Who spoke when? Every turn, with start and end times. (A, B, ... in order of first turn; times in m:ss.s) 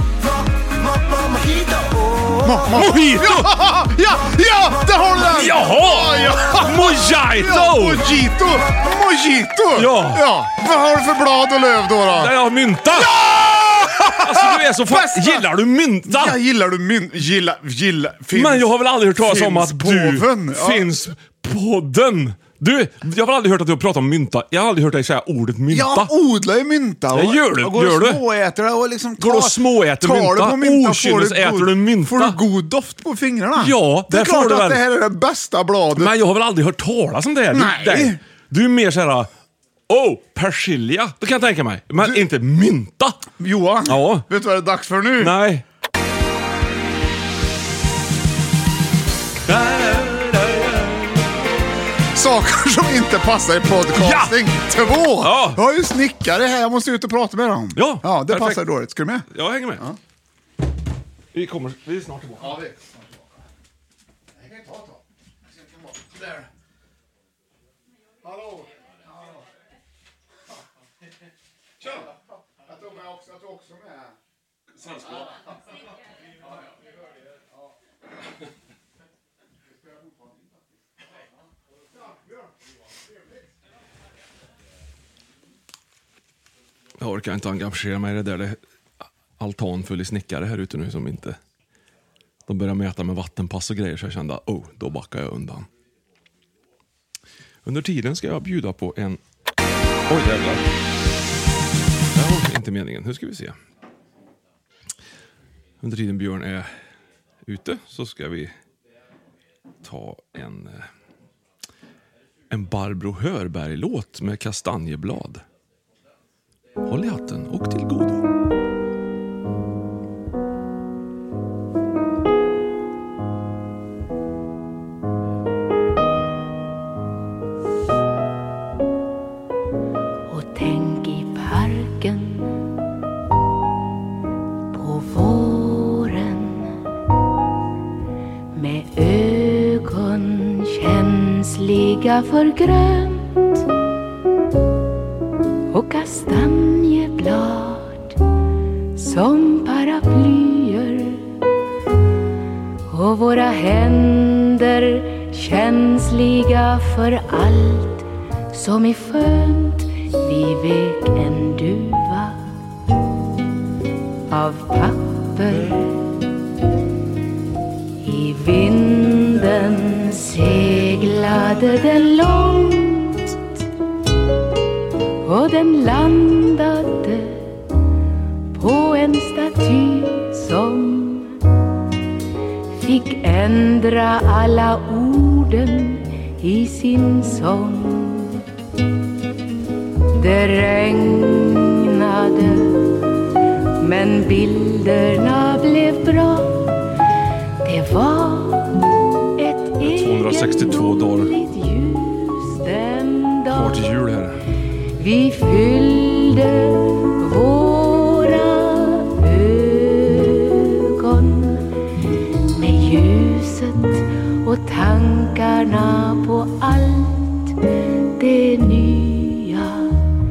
0:00.2-0:02.7 A
0:02.4-0:12.3 B
0:02.7-0:03.5 C
0:05.2-0:08.1 C
0:09.8-0:10.2 C
0:12.1-0:13.2 C
0:12.9-0:15.4 B
0:13.8-0:16.4 C
0:16.1-0:20.9 B
0:18.3-0:26.1 C
0:25.7-0:36.1 B
0:27.1-0:28.2 C
0:29.2-0:32.4 C
0:33.6-0:34.8 C
0:35.9-0:39.3 C
0:37.5-0:38.2 B
0:39.9-0:43.2 C
0:43.4-0:45.3 B
0:43.8-0:44.2 C
0:45.2-0:45.6 C
0:49.5-0:51.2 C
0:52.1-1:00.0 B
0:54.0-0:54.4 C
0:55.2-0:55.6 C
0:57.8-0:58.6 C
0:59.3-0:59.8 C
1:01.3-1:02.6 C
1:02.4-1:03.4 B
1:04.4-1:06.5 B
1:08.3-1:08.6 B
1:12.6-1:14.2 B
1:27.0-1:28.6 C
1:29.4-1:31.4 C
1:32.5-1:35.7 C
1:37.6-1:39.2 C
1:40.1-1:40.6 C
1:42.1-1:43.6 C
1:45.8-1:46.7 C
1:47.4-1:48.5 C
1:49.8-1:50.9 C
1:52.5-1:55.4 C
1:56.8-1:58.2 C
2:10.3-2:12.6 D
2:14.7-2:16.8 D
2:18.5-2:23.6 D
2:25.7-2:28.2 D
2:28.9-2:31.3 D
2:32.9-2:42.4 D
2:44.3-2:46.2 D
2:48.0-2:53.4 D
2:55.2-2:57.6 D
2:58.5-3:01.4 D
3:02.7-3:08.4 D
3:10.2-3:13.0 D
3:13.8-3:16.7 D
3:17.6-3:18.8 D
3:19.4-3:23.8 D
3:19.8-3:21.3 C
3:23.5-3:24.4 C
3:25.0-3:31.7 D
3:32.5-3:37.6 D
3:38.2-3:40.0 D